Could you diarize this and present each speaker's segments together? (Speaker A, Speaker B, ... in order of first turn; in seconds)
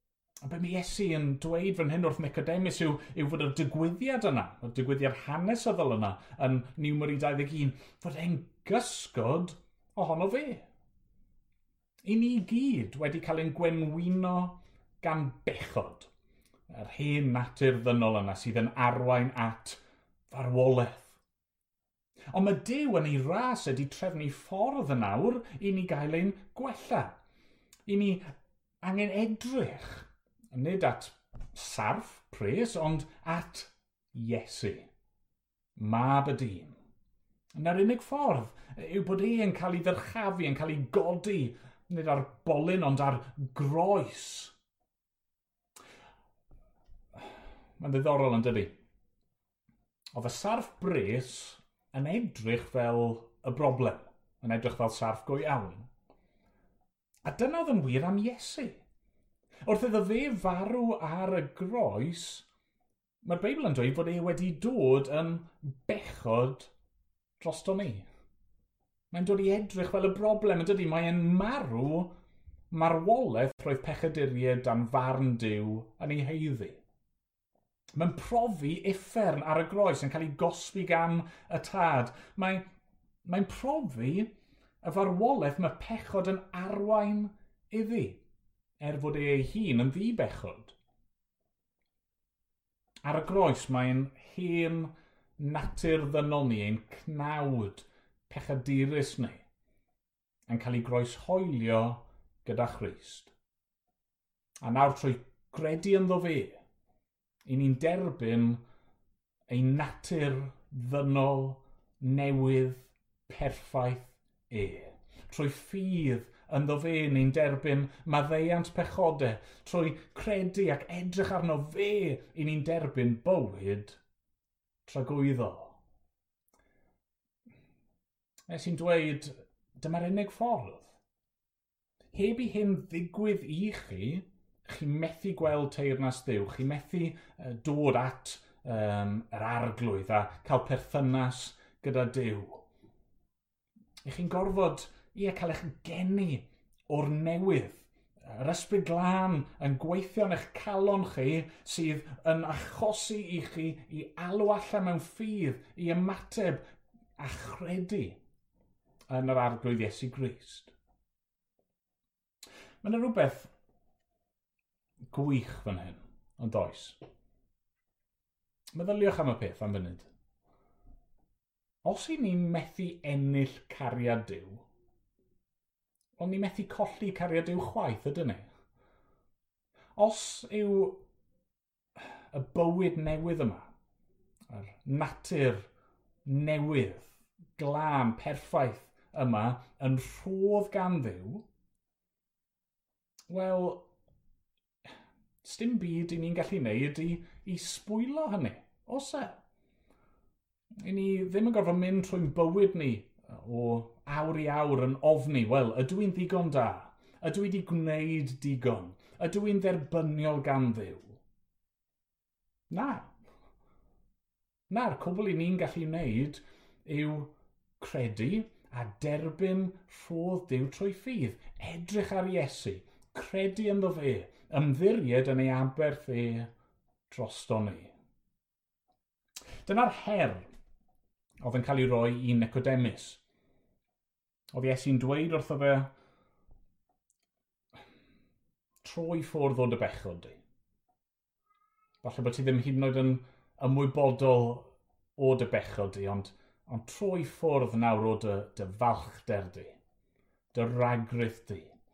Speaker A: 0.4-10.7, 12.0-16.1, 16.7-21.2, 22.3-27.2, 27.9-28.2, 28.8-34.9, 35.8-36.8, 37.5-44.5, 47.8-48.7, 50.1-55.9, 57.2-58.8, 59.6-62.5, 63.2-66.7, 67.4-68.1, 69.1-72.1, 72.7-76.8, 78.0-82.7, 83.2-84.3, 84.8-88.2, 88.8-90.8, 93.0-99.5, 100.5-103.3, 104.6-106.6, 107.5-108.6, 109.5-124.0, 124.9-125.8, 128.5-131.0, 132.1-142.7, 144.1-156.7, 157.2-158.2, 159.1-160.7, 162.8-163.5, 165.1-167.0, 168.7-170.1, 171.8-174.7, 176.2-178.5, 180.0-181.0, 182.3-183.7, 184.5-185.7, 186.2-191.4, 193.3-193.9, 195.4-199.4, 200.8-211.2, 212.7-213.1, 214.7-226.5, 227.1-227.9, 229.7-230.4, 231.4-233.2, 234.5-235.9, 238.8-240.4, 242.0-249.8, 250.5-251.7